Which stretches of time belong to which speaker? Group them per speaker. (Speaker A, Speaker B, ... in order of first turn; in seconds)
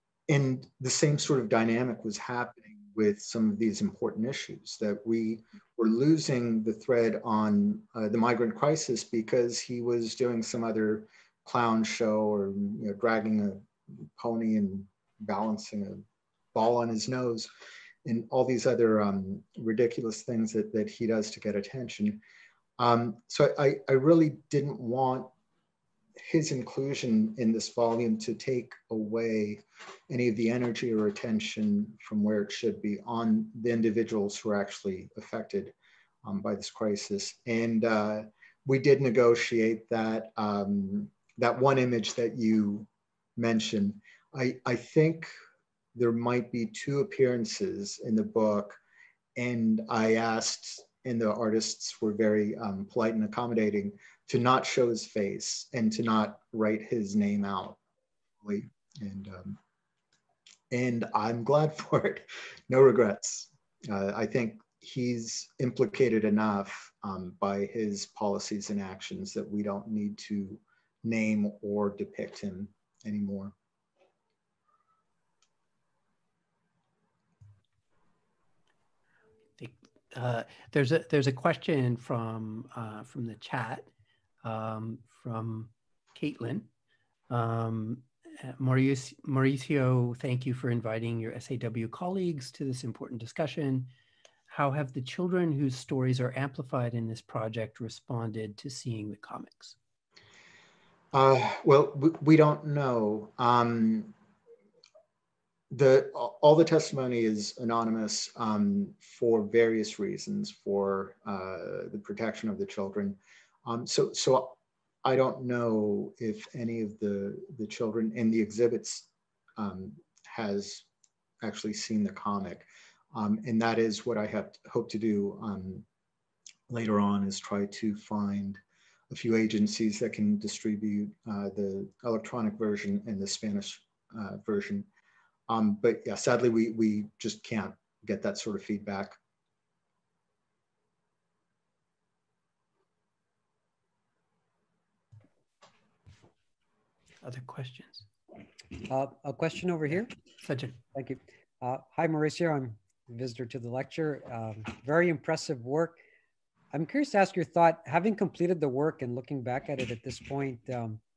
Speaker A: 0.3-17.5, 18.0-22.2, 22.8-25.3, 26.2-45.3, 45.9-48.8, 49.4-57.8, 58.4-59.6, 60.7-73.5, 101.1-104.1, 105.7-120.8, 121.4-125.8, 126.7-134.9, 135.5-139.2
Speaker B: 79.6-83.9, 84.4-86.7, 87.3-93.9, 94.5-99.8, 147.2-148.1, 150.4-150.8
Speaker C: 148.8-150.1, 150.9-156.0, 156.7-161.0